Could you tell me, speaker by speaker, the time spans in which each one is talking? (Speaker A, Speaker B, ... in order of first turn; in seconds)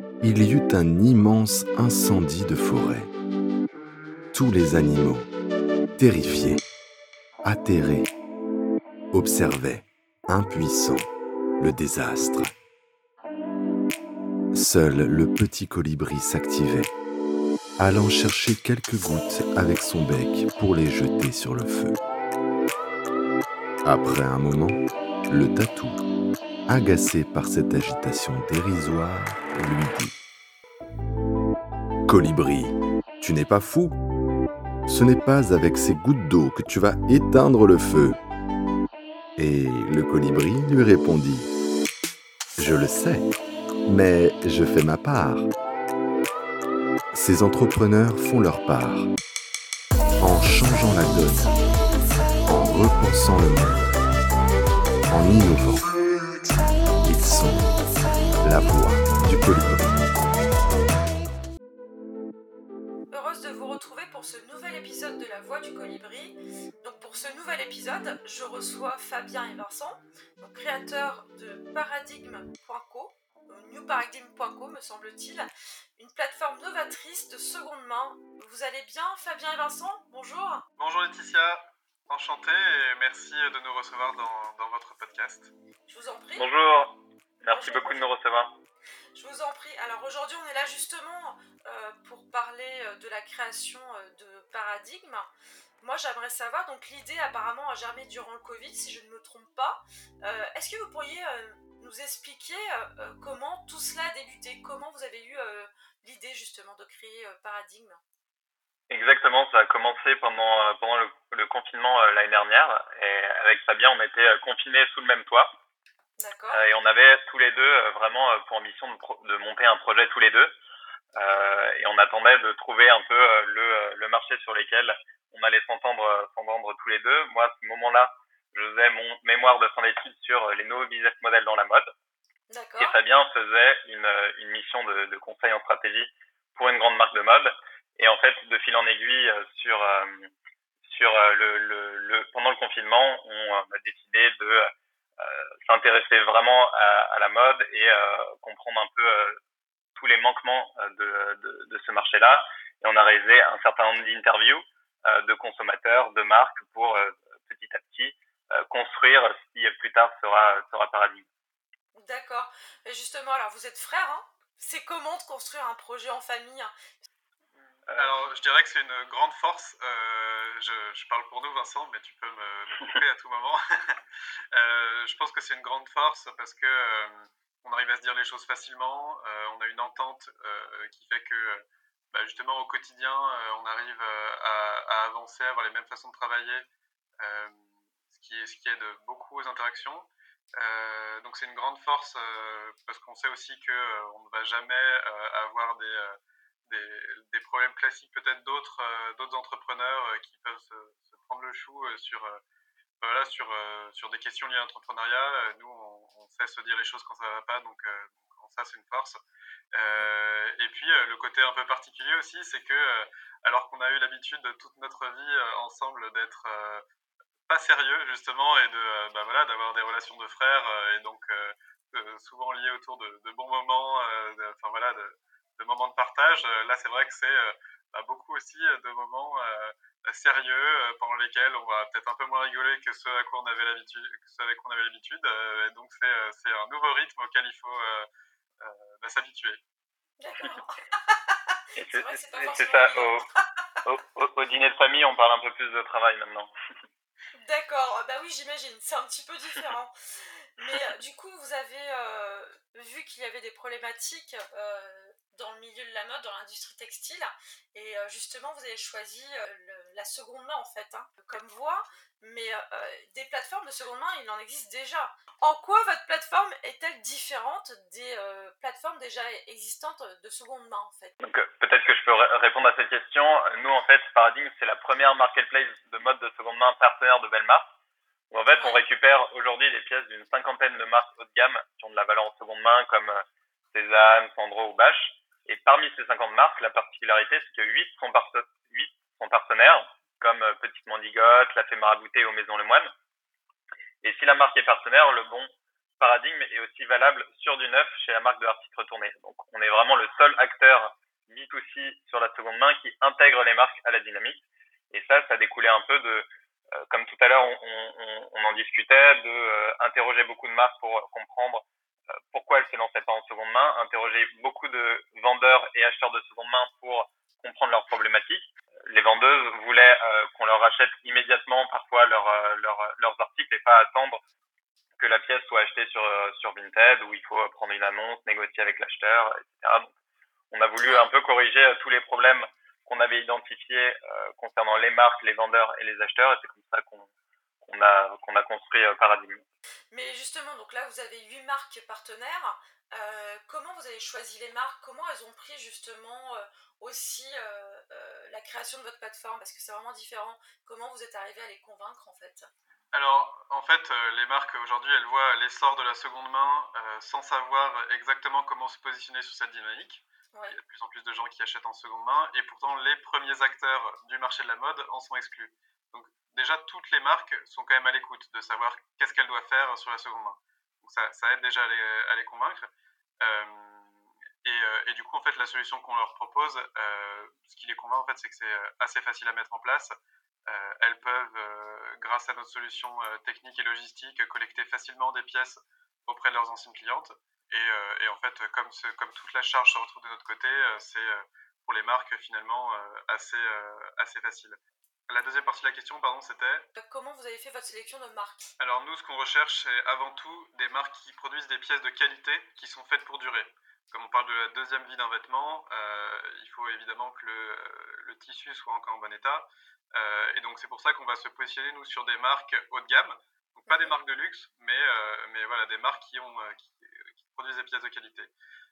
Speaker A: 0.2-3.1, 4.3-5.3, 6.0-6.6, 7.4-8.1, 9.1-11.1, 11.6-12.5, 14.5-16.9, 17.8-22.0, 23.8-26.0, 26.7-30.2, 32.1-34.0, 34.9-38.2, 39.4-41.5, 42.6-43.3, 43.9-45.5, 47.1-49.1, 50.2-51.5, 52.5-53.9, 55.1-55.9, 57.0-57.7, 58.4-60.0
Speaker B: 63.1-80.6, 85.9-86.5, 87.5-88.0, 89.1-95.3, 95.8-108.0, 116.2-116.6, 132.5-133.0, 161.9-167.0, 209.8-210.1, 240.2-243.4, 247.3-249.9, 250.6-271.1, 278.5-278.8, 330.8-331.1, 339.9-352.5, 396.8-398.5
Speaker C: 80.8-85.5, 168.0-174.0, 174.5-186.7, 187.2-202.4, 203.0-209.2, 209.7-216.8, 217.5-238.1, 238.6-239.6, 352.9-372.7, 373.2-379.9, 380.5-396.7, 398.6-418.3
Speaker D: 86.4-88.5, 108.9-115.5, 116.5-120.5, 121.2-131.9, 132.8-140.3, 140.9-144.7, 145.2-149.4, 149.9-161.2, 167.8-168.3, 241.8-243.2, 243.8-246.5, 271.2-277.6, 278.3-283.2, 283.7-292.9, 294.0-306.3, 306.8-311.6, 312.3-324.2, 325.0-329.9, 330.5-337.1, 337.6-339.4